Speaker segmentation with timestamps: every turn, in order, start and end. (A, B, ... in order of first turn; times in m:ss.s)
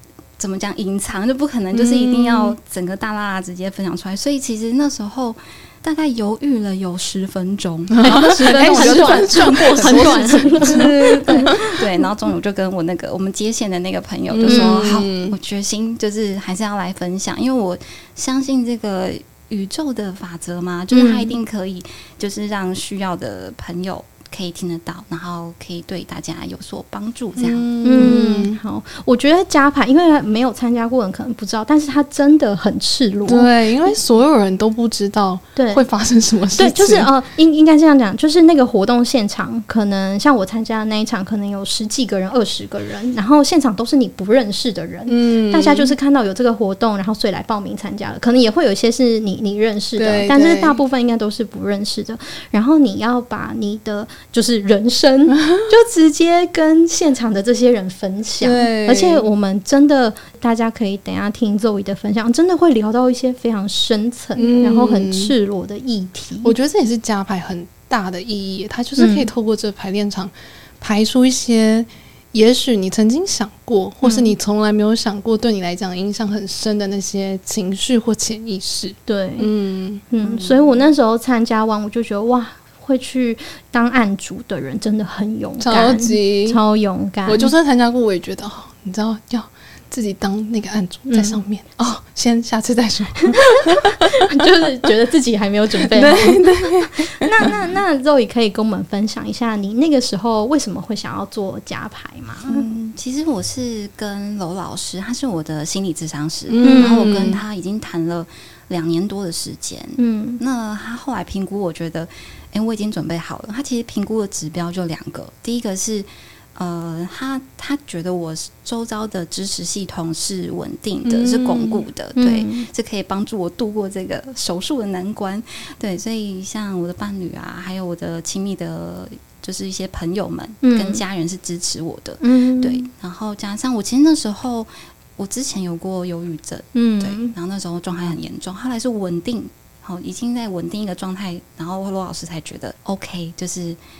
0:00.4-0:28.2 A
0:01.7-0:02.6 B
0:08.0-0:11.5 B
0:08.0-0:11.7 C
0:14.3-0:15.3 B
0:14.4-0:14.8 C
0:20.9-0:21.4 C
0:27.4-0:28.6 B
0:27.8-0:33.9 C
0:33.2-0:37.1 B
0:35.6-0:35.8 C
0:36.5-1:06.5 C
0:45.1-0:45.9 B
0:50.0-0:50.8 B
0:58.4-0:59.2 B
1:04.4-1:05.3 B
1:06.4-1:20.0 B
1:09.0-1:09.3 C
1:14.0-1:14.3 C
1:19.1-1:19.5 C
1:20.1-1:27.5 C
1:20.2-1:20.9 A
1:25.6-1:26.6 B
1:27.2-1:34.0 B
1:31.1-1:31.4 C
1:33.2-1:42.7 C
1:35.8-1:37.5 B
1:42.4-2:23.8 A
1:46.5-1:47.4 B
1:46.6-1:47.1 C
1:50.0-1:50.4 C
2:01.0-2:01.8 B
2:02.2-2:02.7 C
2:10.6-2:11.0 C
2:12.2-2:12.9 C
2:16.7-2:17.3 C